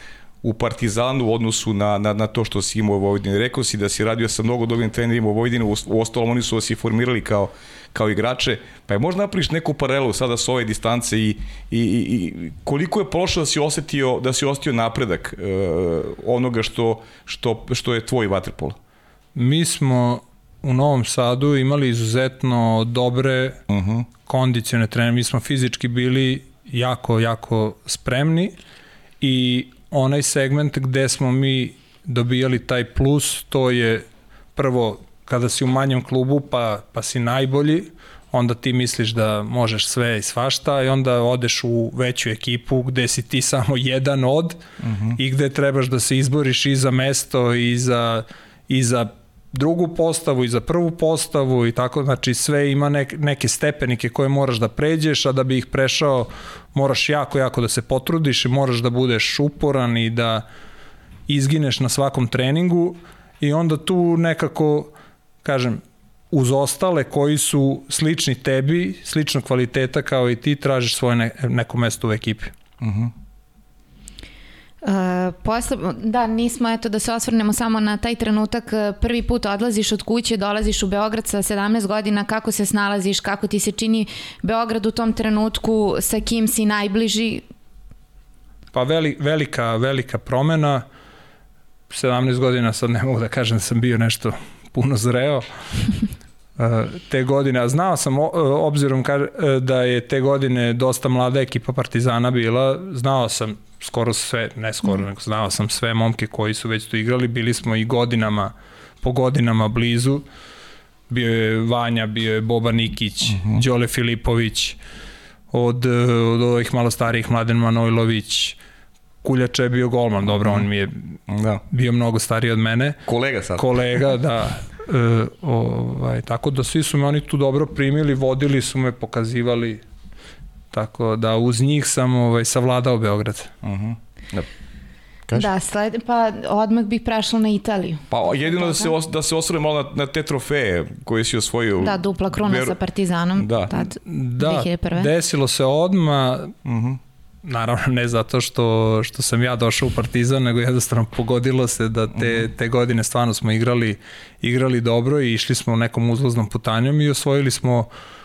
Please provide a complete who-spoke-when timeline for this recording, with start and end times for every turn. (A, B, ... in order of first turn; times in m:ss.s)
0:00.4-0:18.8 A
0:19.4-0:23.6 B
0:23.7-0:24.1 A
0:24.3-0:28.6 B
0:29.2-0:34.0 B
0:34.6-0:44.6 B
0:44.8-0:45.2 A
0:45.2-1:00.4 B
1:01.3-1:04.9 B
1:05.4-1:05.8 B
1:06.3-1:12.5 B
1:12.8-1:13.1 A
1:14.8-1:27.4 C
1:28.7-1:30.8 B
1:31.9-1:35.5 B
1:36.6-1:50.2 B
1:51.1-1:54.8 B
1:53.3-1:53.6 A
1:55.5-1:58.6 B
1:59.2-2:01.2 B
2:00.3-2:00.7 A
2:01.3-2:01.6 A
2:01.7-2:03.0 B
2:03.1-2:03.6 A
2:03.6-2:09.8 B
2:10.7-2:13.5 B
2:13.6-2:14.5 A
2:15.3-2:18.9 C
2:18.1-2:22.8 A
2:21.8-2:25.1 C
2:23.4-2:23.9 A
2:24.0-2:26.6 B
2:26.6-2:27.0 A
2:27.4-2:37.9 B
2:32.2-2:32.4 A